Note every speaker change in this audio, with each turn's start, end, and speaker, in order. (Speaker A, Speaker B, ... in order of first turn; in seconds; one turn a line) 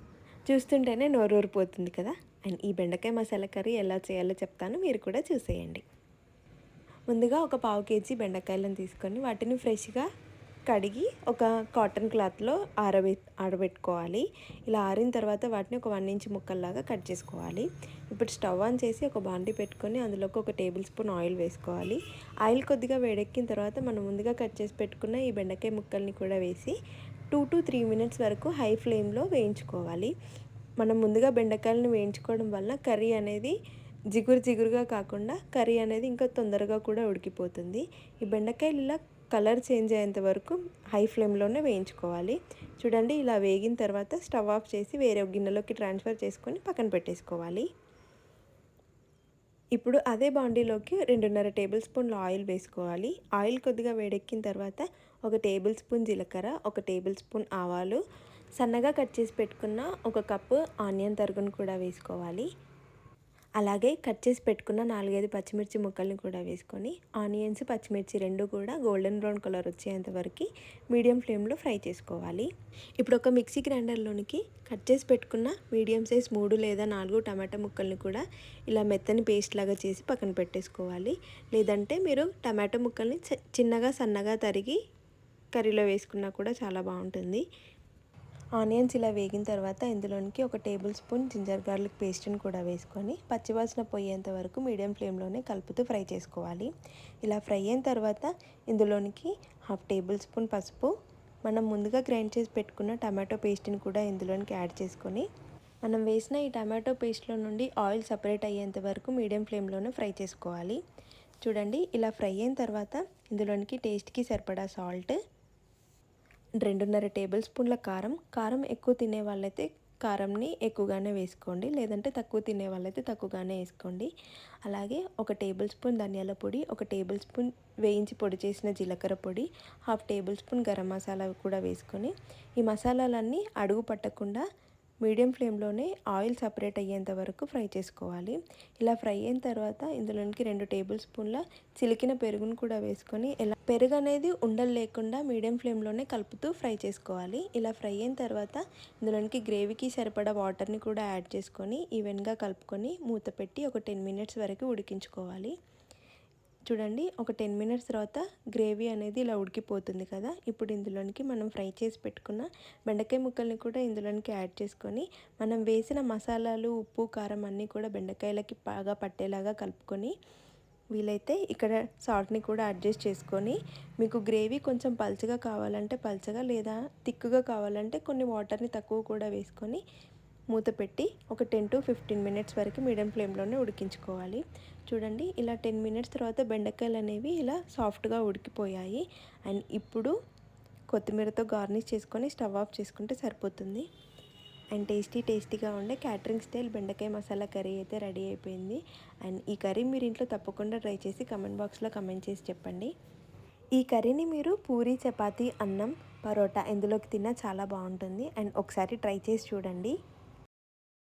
Speaker A: 0.5-5.8
Speaker A: 7.1-10.1
Speaker A: 10.7-26.8
Speaker A: 27.3-30.1
Speaker A: 30.8-33.6
Speaker A: 34.1-47.7
Speaker A: 49.8-58.0
Speaker A: 58.6-62.5
Speaker A: 63.6-72.5
Speaker A: 73.0-84.8
Speaker A: 85.5-87.4
Speaker A: 88.6-96.7
Speaker A: 97.2-100.9
Speaker A: 101.5-105.3
Speaker A: 105.8-110.8
Speaker A: 111.4-115.2
Speaker A: 116.6-124.1
Speaker A: 124.7-134.5
Speaker A: 135.1-155.5
Speaker A: 156.7-170.1
Speaker A: 170.9-179.8
Speaker A: 180.5-190.1
Speaker A: 190.9-193.9
Speaker A: 194.8-202.9
Speaker A: 203.8-209.9